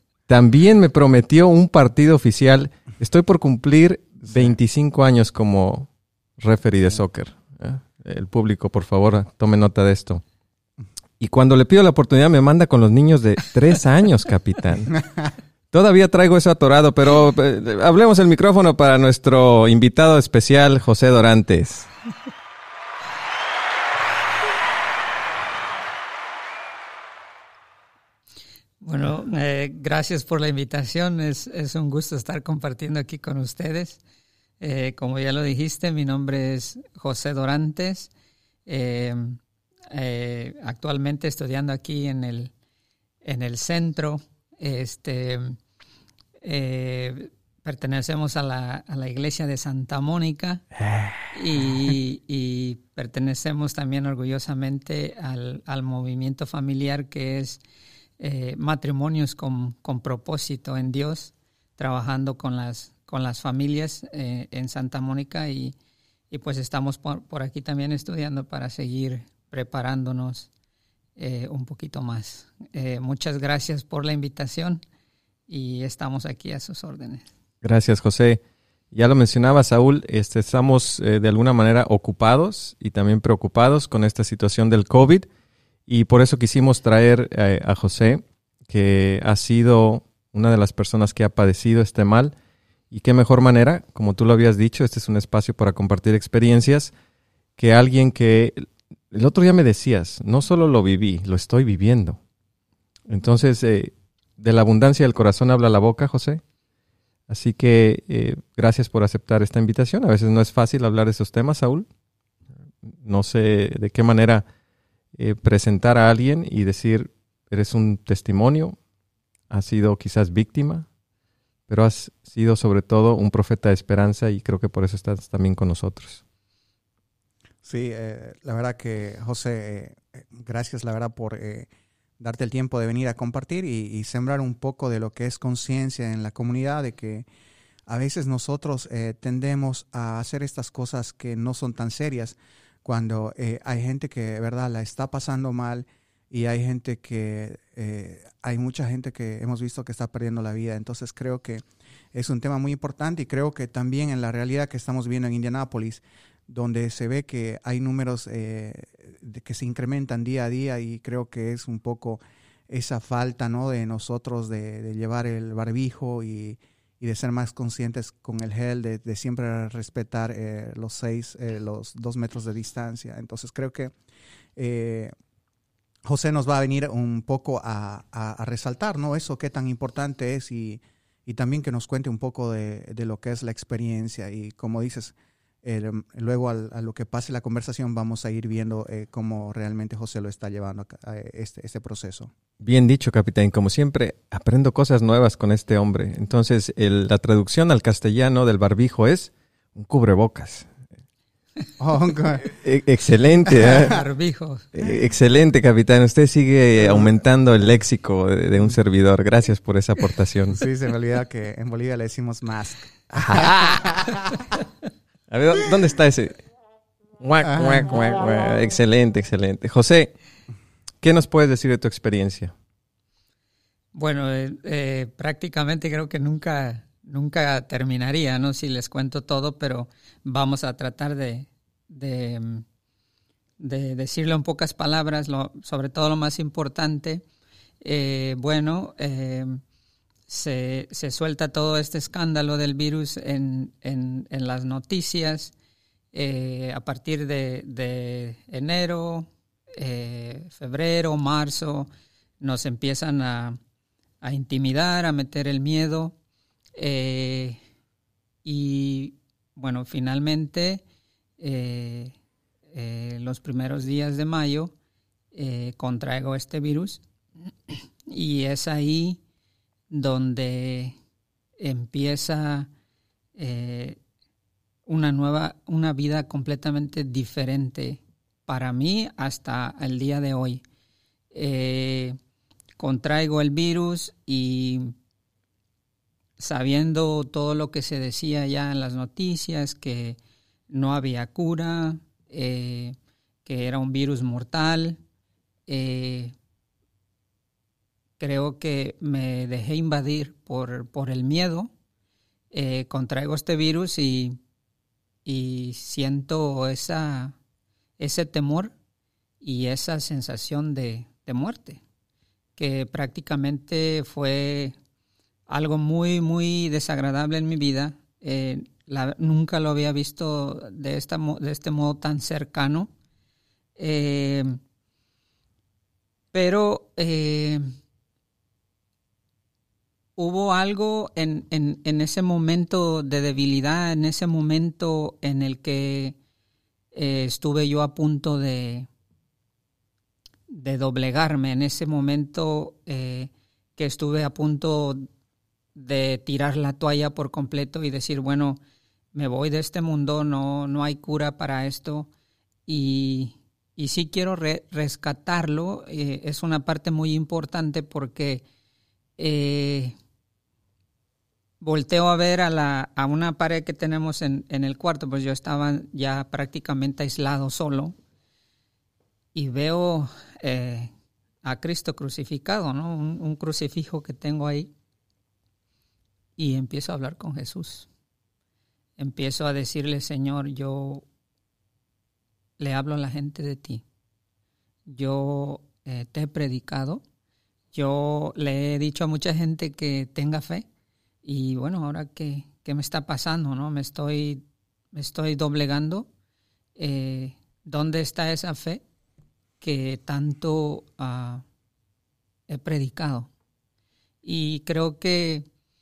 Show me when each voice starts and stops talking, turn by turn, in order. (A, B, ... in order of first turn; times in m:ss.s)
0:00.3-0:10.2 A
0:11.2-0:15.0 A
0:15.7-0:21.9 A
0:28.8-0:34.0 B
0:34.6-0:38.1 B
0:38.6-0:39.4 B
0:39.9-0:42.5 B
0:43.2-0:45.6 B
0:46.4-0:50.6 B
0:51.3-0:57.6 B
0:58.2-1:05.7 B
1:06.3-1:10.5 B
1:11.2-1:14.8 B
1:15.5-1:17.3 B
1:17.6-1:18.4 A
1:18.9-1:25.3 A
1:25.9-1:32.3 A
1:32.9-1:36.9 A
1:37.6-1:42.2 A
1:43.1-1:46.4 A
1:47.3-1:51.9 A
1:52.8-1:54.4 A
1:55.1-1:58.8 A
1:59.5-2:00.9 A
2:01.7-2:06.2 A
2:07.6-2:11.7 C
2:12.2-2:17.2 C
2:17.9-2:53.9 C
2:54.6-2:55.1 C
2:56.0-3:12.3 C
3:12.6-3:20.7 A
3:21.8-3:22.6 C
3:22.6-3:24.0 A
3:23.6-3:23.9 C
3:23.8-3:24.6 B
3:24.7-3:30.6 A
3:30.5-3:34.4 C
3:33.1-3:33.8 A
3:35.3-3:36.4 A
3:37.2-3:40.1 A
3:37.4-3:37.9 C
3:41.0-3:42.5 A
3:43.9-3:52.6 B
3:53.6-3:57.2 B
3:57.8-3:59.6 B
4:00.3-4:05.5 B
4:06.1-4:13.6 B
4:14.2-4:16.1 B
4:16.8-4:17.6 B
4:18.4-4:20.8 B
4:21.4-4:22.1 B
4:22.7-4:24.7 B
4:25.3-4:27.0 B
4:27.7-4:29.2 B
4:29.9-4:31.0 B
4:31.6-4:32.7 B
4:33.4-4:34.0 B
4:34.9-4:40.6 B
4:41.3-4:42.2 B
4:42.8-4:44.9 B
4:46.4-4:50.2 B
4:50.7-4:55.0 B
4:55.7-4:56.3 B
4:58.2-5:01.7 B
5:02.5-5:04.4 B
5:05.2-5:07.4 B
5:08.0-5:08.7 B
5:09.4-5:11.8 B
5:12.6-5:14.7 B
5:15.5-5:22.9 B
5:23.8-5:24.6 B
5:26.3-5:27.6 B
5:30.2-5:36.2 B
5:36.9-5:38.9 B
5:40.5-5:45.1 B
5:45.7-5:48.6 B
5:49.1-5:52.1 B
5:52.7-5:58.4 B
5:59.2-5:59.9 B
6:01.6-6:07.9 B
6:09.3-6:10.9 B
6:11.4-6:14.7 B
6:16.4-6:17.9 B
6:19.0-6:21.0 B
6:22.6-6:23.8 B
6:24.9-6:27.0 B
6:27.7-6:30.6 B
6:31.2-6:36.1 B
6:36.8-6:38.8 B
6:39.6-6:41.4 B
6:42.5-6:43.3 B
6:44.2-6:45.4 B